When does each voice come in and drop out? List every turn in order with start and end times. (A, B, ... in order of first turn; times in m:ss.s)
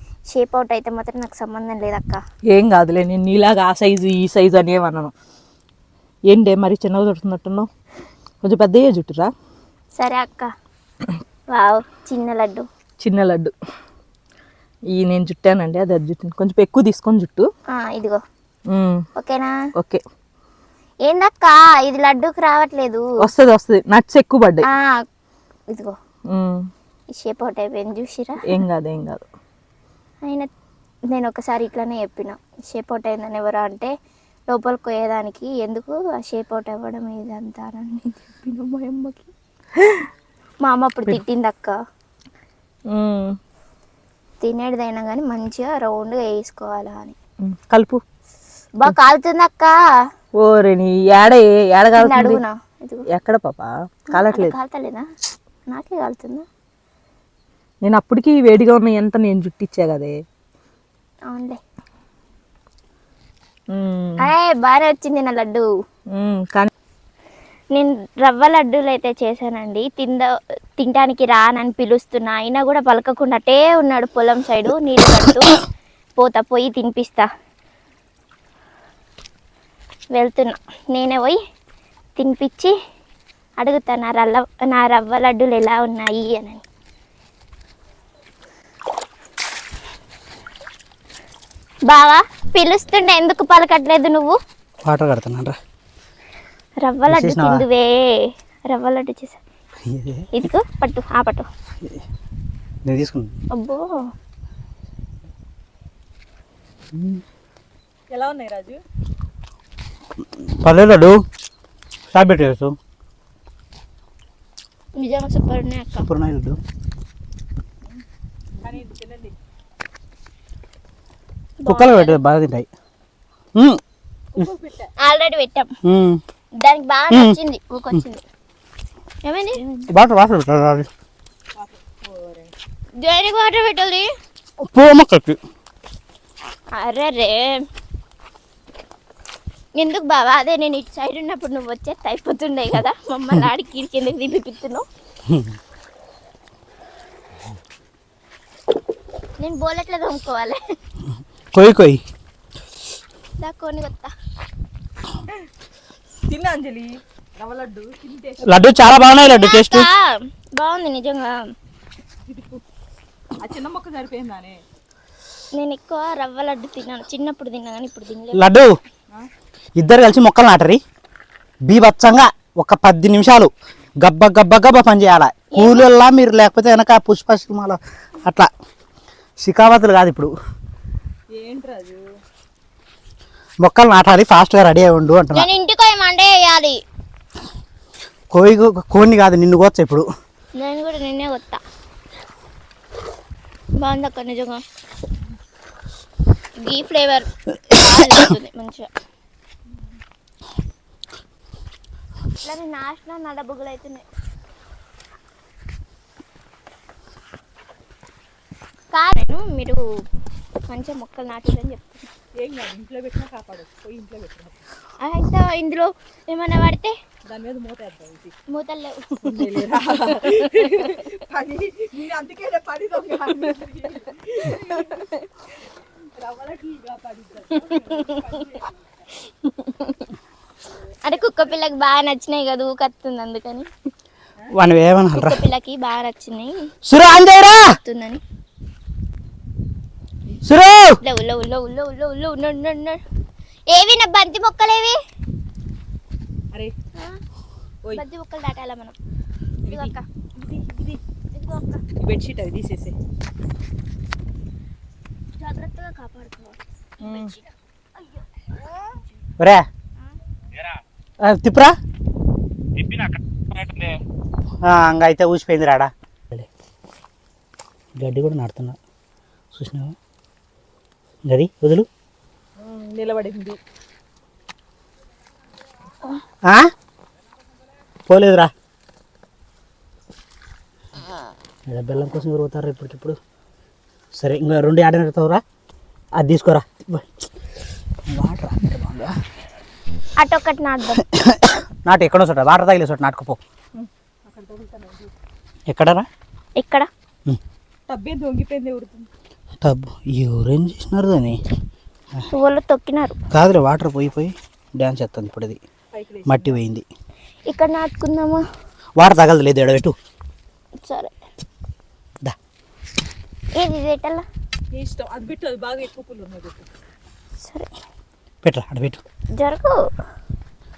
0:00.3-0:02.2 A
0:02.5-0:05.1 B
0:06.3-0:07.7 B
0:08.4-0:09.3 B
0:10.0-0:10.5 A
0:11.5-0:12.7 A
0:13.0-0:13.5 B
0:14.9-0:17.5 B
0:17.7-0:18.2 A
0:18.7-0:19.0 B
0:19.2-0:19.5 A
0:19.8-0:20.0 B
0:21.0-0:23.0 A
0:23.2-0:24.7 B
0:24.7-0:25.0 A
0:26.3-0:26.6 B
0:27.2-0:28.4 A
0:28.5-0:29.3 B
0:31.1-0:33.9 A
0:34.5-0:39.3 A
0:39.8-0:40.0 B
0:40.6-0:41.8 A
0:42.9-0:43.3 B
0:44.4-0:47.2 A
0:47.4-0:48.0 B
0:48.8-0:49.7 A
0:50.4-0:52.4 B
0:52.0-0:53.0 A
0:53.1-0:54.5 B
0:54.1-0:55.0 A
0:55.7-0:56.5 A
0:57.8-1:00.1 B
1:01.3-1:01.6 A
1:03.7-1:04.3 B
1:04.2-1:05.7 A
1:06.2-1:06.7 B
1:07.7-1:15.6 A
1:16.2-1:17.3 A
1:20.2-1:21.4 A
1:22.2-1:22.7 A
1:23.6-1:26.6 A
1:31.9-1:34.4 A
1:34.9-1:35.6 C
1:36.8-1:39.4 A
1:37.1-1:37.6 C
1:39.8-1:40.3 C
1:40.3-1:41.5 A
1:42.8-1:43.3 C
1:43.5-1:44.0 A
1:46.9-1:47.2 C
1:48.1-1:48.8 B
1:50.5-1:51.2 C
1:52.1-1:52.8 C
1:55.0-1:56.1 A
1:56.0-1:56.6 C
1:58.6-1:59.4 B
2:01.6-2:02.2 A
2:01.6-2:02.7 C
2:03.6-2:03.8 C
2:04.4-2:04.9 B
2:05.0-2:05.7 A
2:05.8-2:06.2 C
2:06.6-2:08.2 A
2:07.1-2:07.4 C
2:09.2-2:09.6 A
2:09.6-2:09.9 B
2:09.9-2:10.9 C
2:11.6-2:12.5 B
2:13.0-2:14.1 A
2:14.7-2:15.4 C
2:16.7-2:17.6 A
2:19.8-2:24.8 A
2:29.4-2:30.6 A
2:31.5-2:32.0 C
2:33.4-2:34.1 A
2:36.3-2:38.7 B
2:38.4-2:39.9 C
2:39.2-2:41.4 A
2:42.2-2:42.6 B
2:43.4-2:44.6 B
2:45.5-2:48.5 A
2:48.4-2:48.7 C
2:49.8-2:50.8 C
2:51.7-2:58.5 C
2:55.5-2:55.9 A
2:59.4-3:00.3 C
3:01.3-3:02.1 B
3:03.6-3:05.5 C
3:05.3-3:06.8 A
3:08.3-3:10.1 C
3:10.6-3:11.6 A
3:13.8-3:14.6 A
3:16.6-3:18.9 A
3:22.4-3:24.0 A
3:28.9-3:29.8 A
3:30.7-3:32.1 A
3:32.4-3:34.6 B
3:35.0-3:36.9 A
3:37.3-3:38.3 B
3:38.5-3:41.0 A
3:39.2-3:45.1 B
3:44.9-3:45.2 A
3:46.2-3:48.8 B
3:47.7-3:48.4 A
3:49.3-3:50.1 A
3:51.0-3:53.7 A
3:54.5-3:55.4 C
3:55.1-3:56.7 A
3:56.9-3:57.7 C
3:57.6-3:58.2 A
4:00.4-4:01.0 C
4:01.0-4:03.0 A
4:03.7-4:05.0 A
4:07.0-4:07.2 A
4:07.9-4:09.0 A
4:09.6-4:11.0 B
4:09.7-4:10.0 A
4:11.3-4:11.8 A
4:12.0-4:13.0 B
4:15.4-4:17.5 A
4:17.0-4:17.4 B
4:18.2-4:19.0 A
4:19.4-4:19.6 C
4:21.2-4:21.8 C
4:24.6-4:26.5 C
4:28.0-4:28.8 C
4:29.5-4:30.0 C
4:31.3-4:31.9 C
4:32.6-4:33.6 B
4:36.4-4:36.7 C
4:38.1-4:38.5 C
4:41.7-4:43.2 C
4:44.2-4:45.4 C
4:46.2-4:47.1 C
4:48.1-4:49.1 C
4:50.2-4:51.0 A
4:51.1-4:53.4 C
4:53.8-4:55.1 B
4:55.7-4:56.1 C
4:56.6-4:56.9 A
4:57.9-4:59.1 B
4:59.6-5:01.4 C
5:02.3-5:03.2 A
5:03.3-5:05.6 C
5:05.9-5:06.6 B
5:06.3-5:06.8 C
5:07.5-5:08.4 A
5:09.0-5:10.0 C
5:10.8-5:11.2 A
5:13.6-5:14.2 A
5:14.7-5:16.7 B
5:17.4-5:17.7 A
5:18.4-5:19.0 C
5:19.4-5:19.8 A